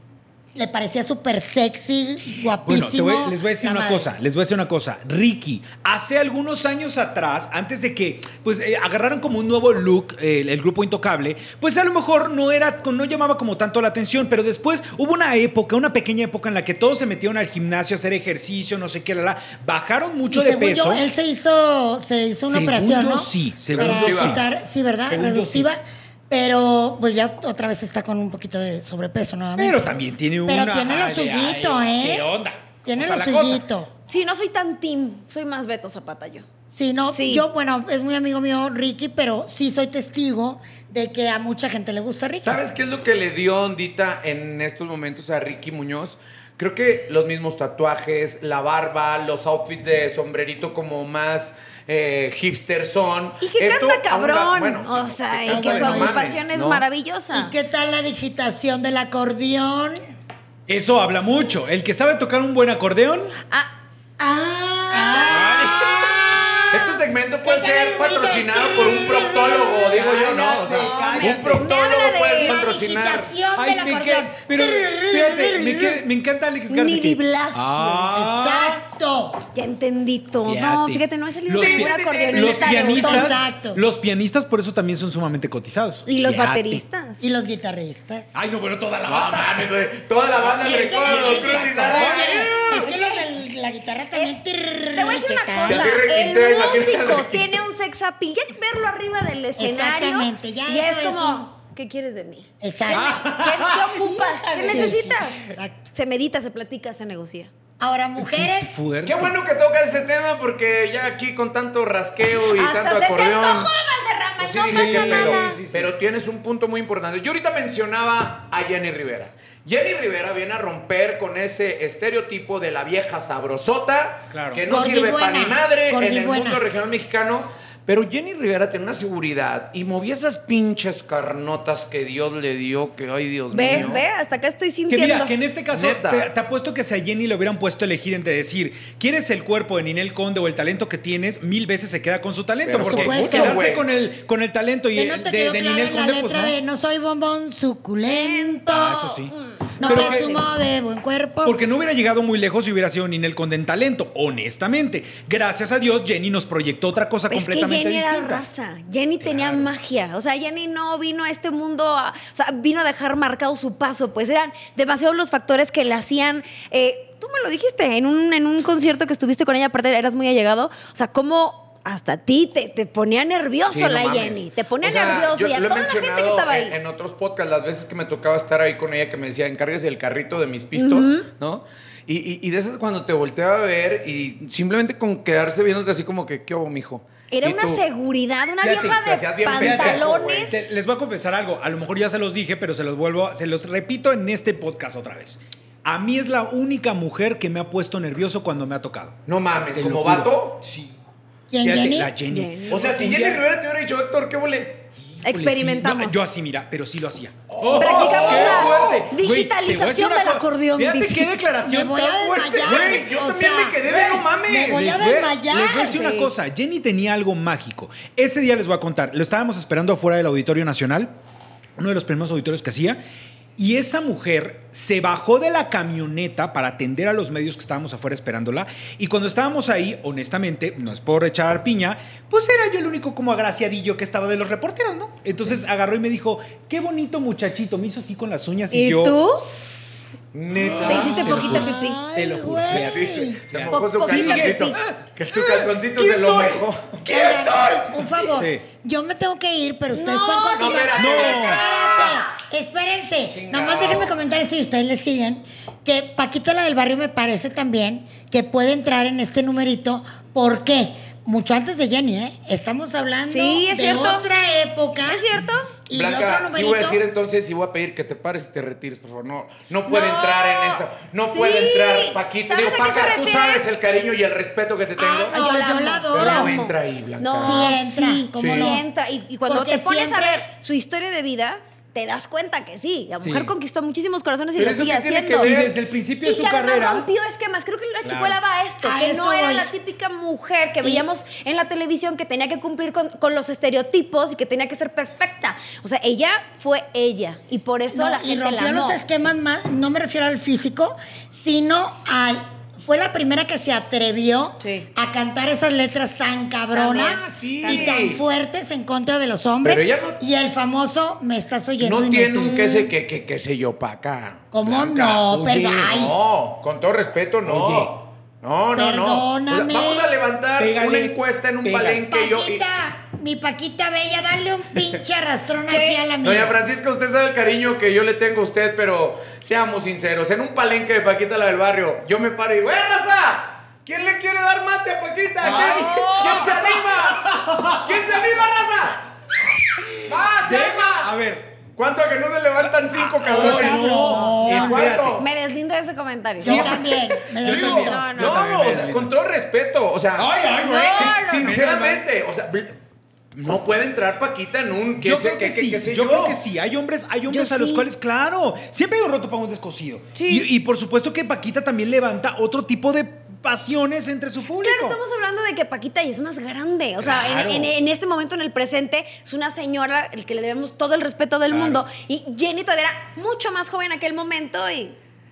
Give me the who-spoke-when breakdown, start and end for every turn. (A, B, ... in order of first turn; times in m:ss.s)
0:00.5-0:04.1 A
0:02.6-0:21.0 B
0:20.3-0:32.3 A
0:22.5-0:24.4 B
0:23.7-0:24.4 C
0:25.1-0:25.7 B
0:29.6-0:33.6 B
0:32.8-0:33.9 A
0:34.1-0:36.4 D
0:36.7-0:42.6 A
0:37.1-0:37.4 D
0:42.4-0:56.8 C
0:53.4-0:57.5 D
0:55.5-0:56.3 A
0:55.5-0:56.3 B
0:57.3-1:00.0 A
1:00.7-1:03.3 B
1:03.5-1:05.9 D
1:04.9-1:10.0 A
1:05.3-1:06.2 B
1:06.7-1:13.3 C
1:09.9-1:11.7 B
1:10.7-1:11.1 A
1:10.8-1:12.6 D
1:12.4-1:15.9 A
1:13.5-1:18.8 B
1:15.5-1:16.0 D
1:16.7-1:18.1 D
1:18.1-1:19.4 A
1:19.5-1:23.4 D
1:20.4-1:26.8 B
1:21.6-1:22.8 C
1:22.9-1:23.8 A
1:26.1-1:27.2 D
1:27.2-1:28.4 A
1:28.3-1:29.7 B
1:29.0-1:32.5 C
1:30.4-1:32.5 B
1:30.6-1:36.0 A
1:32.0-1:33.2 D
1:34.9-1:47.5 D
1:35.6-1:37.6 C
1:39.6-1:41.5 A
1:42.6-1:43.2 A
1:42.9-1:45.1 B
1:44.6-1:45.7 A
1:47.8-1:48.8 A
1:48.2-1:49.4 B
1:49.0-1:53.7 C
1:52.5-1:55.6 D
1:54.4-2:14.0 C
1:54.7-1:55.9 B
2:04.3-2:04.6 B
2:04.7-2:06.6 A
2:13.5-2:15.3 D
2:13.6-2:14.0 B
2:14.9-2:26.5 B
2:15.7-2:16.3 C
2:22.6-2:23.9 C
2:22.8-2:23.6 A
2:24.9-2:29.0 A
2:28.0-2:30.4 D
2:28.7-2:30.4 B
2:29.8-2:31.6 A
2:31.4-2:38.4 B
2:37.3-2:56.7 D
2:39.3-2:39.6 C
2:53.7-3:07.8 C
3:00.8-3:01.3 D
3:07.3-3:10.6 D
3:08.6-3:10.5 C
3:08.6-3:08.9 B
3:09.5-3:19.2 B
3:19.2-3:20.6 C
3:19.7-3:20.9 B
3:21.5-3:22.1 A
3:21.6-3:23.4 B
3:22.3-3:22.8 D
3:22.7-3:24.8 C
3:25.1-3:33.1 B
3:25.2-3:26.2 D
3:27.5-3:29.0 C
3:27.8-3:31.3 D
3:31.6-3:33.8 A
3:32.5-3:35.2 C
3:33.8-3:41.1 B
3:34.5-3:36.1 A
3:36.0-3:36.3 D
3:41.8-3:43.0 B
3:43.6-3:59.2 B
3:58.7-3:59.9 D
4:00.3-4:01.6 C
4:00.5-4:06.6 B
4:00.8-4:02.0 D
4:00.9-4:03.4 A
4:02.6-4:08.3 C
4:03.7-4:04.7 D
4:07.0-4:27.0 A
4:08.4-4:08.6 B
4:09.9-4:11.4 D
4:10.6-4:12.3 C
4:11.0-4:11.6 B
4:13.3-4:14.1 C
4:23.3-4:24.2 D
4:25.0-4:25.7 D
4:25.9-4:35.5 C
4:29.9-4:33.6 D
4:35.0-4:36.6 A
4:35.3-4:45.5 D
4:36.1-4:37.7 C
4:37.4-4:38.8 A
4:38.4-4:38.8 C
4:39.4-4:40.5 A
4:43.2-4:43.5 B
4:44.6-4:45.8 C
4:45.4-4:47.1 B
4:46.2-4:59.0 D
4:48.0-4:48.4 B
4:48.8-4:49.7 A
4:57.9-5:12.7 A
5:04.6-5:04.8 D
5:06.7-5:08.2 C
5:07.6-5:08.0 D
5:09.6-5:10.2 C
5:11.8-5:15.2 C
5:12.5-5:12.9 D
5:14.5-5:16.2 A
5:15.2-5:16.0 B
5:15.8-5:22.6 C
5:17.4-5:17.9 B
5:18.7-5:20.1 A
5:20.6-5:22.0 B
5:22.1-5:26.5 A
5:25.7-5:26.0 D
5:26.2-5:39.0 C
5:35.4-5:38.5 B
5:35.4-5:36.6 D
5:40.0-5:41.5 B
5:40.0-5:41.1 C
5:41.7-5:45.2 C
5:42.6-5:45.2 B
5:43.3-5:45.0 A
5:45.2-5:46.8 D
5:46.4-5:48.1 A
5:46.4-5:49.1 B
5:47.4-5:50.3 C
5:47.6-5:48.4 D
5:50.2-5:52.0 B
5:50.4-5:51.6 D
5:50.9-5:52.8 C
5:53.3-5:56.4 C
5:55.0-6:05.0 B
5:57.3-5:57.9 D
6:00.1-6:00.5 D
6:04.5-6:15.0 D
6:07.0-6:07.7 B
6:11.5-6:11.8 C